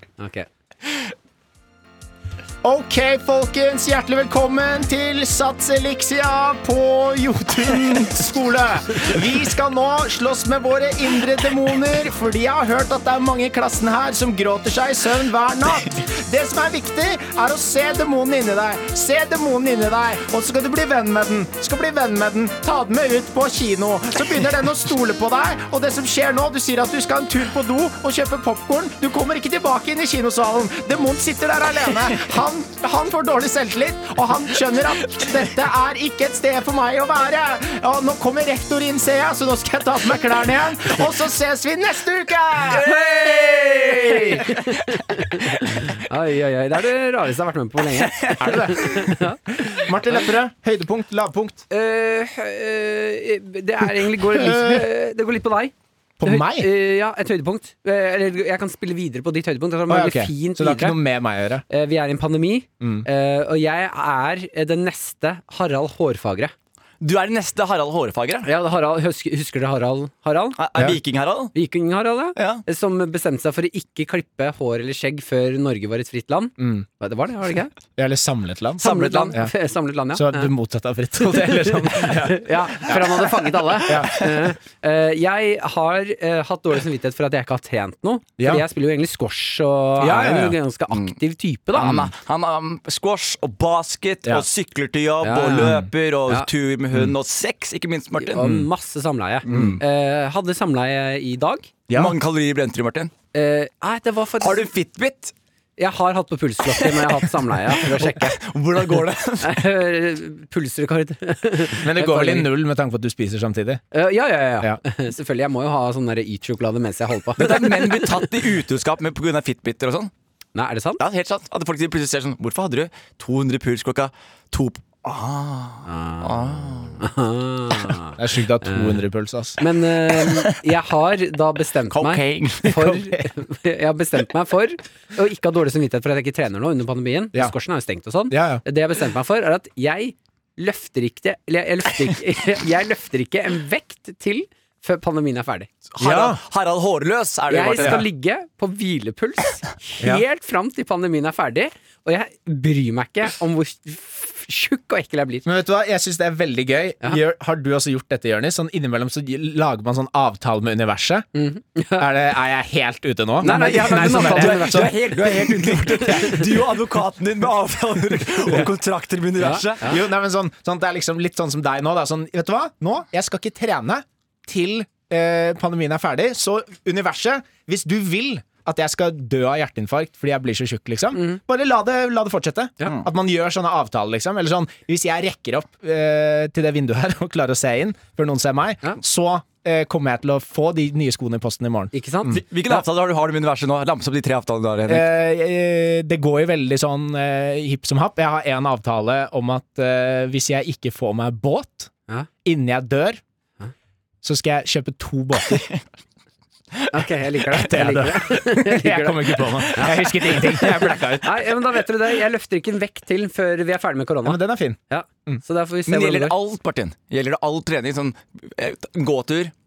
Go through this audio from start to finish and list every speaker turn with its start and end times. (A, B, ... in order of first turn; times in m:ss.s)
0:00.2-0:00.5 A
0:02.6-0:43.0 B
0:42.7-0:44.6 C
0:43.2-0:50.2 A
0:43.8-0:44.4 B
0:48.0-0:48.7 C
0:48.4-0:51.6 B
0:51.7-1:01.0 A
0:54.2-0:54.9 B
0:56.2-0:56.7 B
0:59.9-1:01.6 B
1:01.7-1:06.5 A
1:02.8-1:03.1 B
1:07.0-1:08.5 C
1:08.4-1:10.6 A
1:10.6-1:11.6 C
1:10.8-1:11.0 B
1:11.5-1:17.7 A
1:12.4-1:12.6 C
1:16.6-1:16.8 B
1:18.0-1:19.5 B
1:18.8-1:20.5 A
1:18.8-1:19.4 C
1:20.1-1:23.3 B
1:21.4-1:32.1 A
1:23.8-1:24.3 B
1:28.4-1:28.6 B
1:30.0-1:30.6 B
1:31.8-1:38.6 C
1:35.2-1:36.5 A
1:38.2-1:41.7 A
1:39.5-1:39.8 B
1:39.5-1:39.8 C
1:41.9-1:42.2 B
1:41.9-1:43.1 C
1:43.3-1:44.7 A
1:44.4-1:45.3 C
1:45.8-1:48.4 A
1:46.8-1:49.6 C
1:49.4-1:52.5 A
1:51.8-1:53.8 B
1:53.9-1:58.4 A
1:57.4-2:00.1 C
2:00.6-2:01.0 A
2:01.0-2:07.0 C
2:05.8-2:09.0 A
2:08.2-2:09.6 B
2:09.6-2:25.7 A
2:10.2-2:10.5 C
2:11.9-2:13.0 C
2:18.3-2:18.6 B
2:25.9-2:28.1 C
2:26.0-2:26.4 B
2:27.5-2:35.5 A
2:27.8-2:28.0 B
2:35.4-2:41.3 B
2:41.4-2:42.1 A
2:42.0-2:45.0 B
2:43.4-2:46.5 A
2:43.4-2:50.0 C
2:49.4-2:50.0 A
2:49.8-3:12.8 B
3:11.9-3:12.4 A
3:12.3-3:15.1 C
3:14.9-3:21.9 B
3:22.4-3:23.2 B
3:24.2-3:25.6 B
3:25.5-3:25.8 C
3:26.9-3:30.5 A
3:27.5-3:31.5 B
3:31.2-3:36.4 A
3:34.2-3:35.4 B
3:35.9-3:39.5 C